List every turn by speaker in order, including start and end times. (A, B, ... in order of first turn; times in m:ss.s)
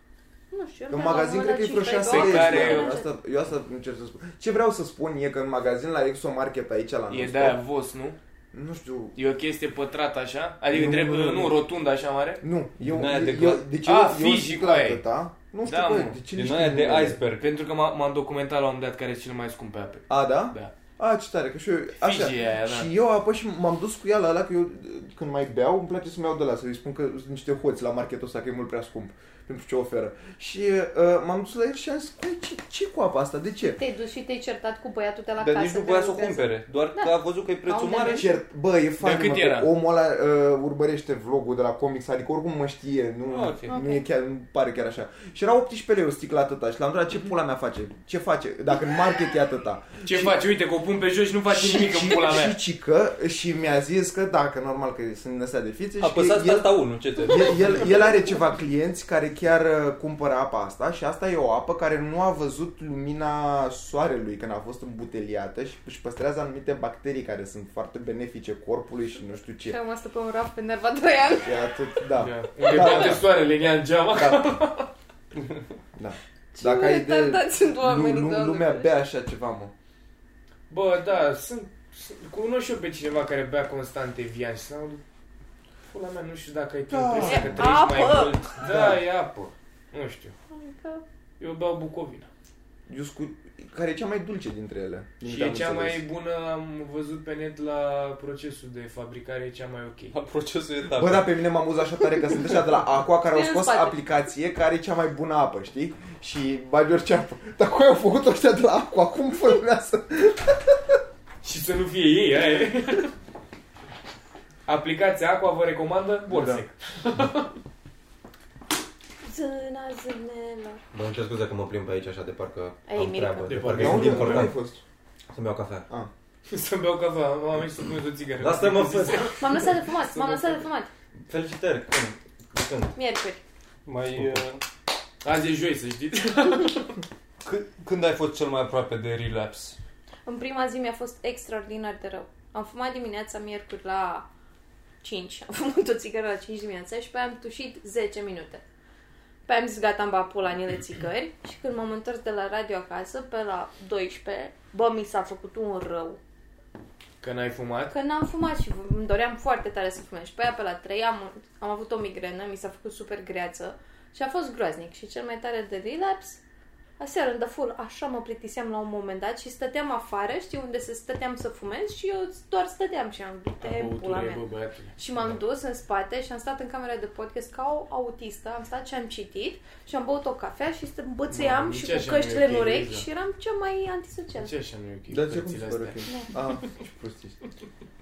0:00.5-0:03.1 A
0:00.9-0:07.6 B
0:02.0-0:02.9 C
0:07.1-0:08.2 C
0:08.5-0:09.2 B
0:09.1-0:12.4 C
0:10.7-0:11.6 B
0:12.4-0:17.2 B
0:12.8-0:13.7 D
0:13.8-0:15.0 C
0:15.6-0:16.2 C
0:16.3-0:17.4 D
0:17.4-0:20.7 C
0:20.1-0:33.8 B
0:22.0-0:22.9 C
0:33.8-0:38.4 A
0:35.4-0:38.3 D
0:38.1-0:50.4 B
0:39.0-0:39.7 C
0:43.2-0:43.7 D
0:43.6-0:44.0 A
0:50.0-0:52.6 C
0:51.5-1:09.8 B
0:56.0-0:58.1 D
1:09.6-1:11.6 A
1:11.4-1:13.3 B
1:12.2-1:14.9 C
1:16.0-1:19.7 B
1:16.5-1:18.9 A
1:20.7-1:25.0 C
1:25.9-1:30.3 C
1:26.9-1:27.8 B
1:27.2-1:28.5 A
1:28.6-1:29.0 B
1:30.5-1:31.0 A
1:31.4-1:32.3 C
1:32.9-1:36.0 B
1:35.2-1:40.1 C
1:40.1-1:41.4 D
1:40.9-1:51.0 B
1:43.3-1:44.0 A
1:51.4-1:53.1 C
1:54.6-1:57.5 C
1:56.3-1:56.6 B
1:59.2-2:00.8 A
2:00.9-2:04.5 E
2:02.9-2:03.8 A
2:03.5-2:04.5 C
2:03.8-2:04.8 B
2:05.3-2:05.9 E
2:06.5-2:09.6 C
2:08.4-2:09.3 E
2:09.4-2:10.9 A
2:11.3-2:13.0 E
2:13.0-2:13.4 A
2:13.8-2:14.6 D
2:14.1-2:14.4 E
2:15.2-2:17.0 C
2:17.4-2:19.8 D
2:20.2-2:24.3 A
2:25.0-2:28.6 A
2:29.4-2:36.2 A
2:37.2-2:37.9 C
2:37.9-2:46.4 A
2:47.0-2:54.4 A
2:53.6-2:55.4 C
2:55.0-3:04.5 A
3:01.3-3:03.0 C
3:04.4-3:06.0 C
3:05.1-3:07.4 B
3:06.0-3:06.3 A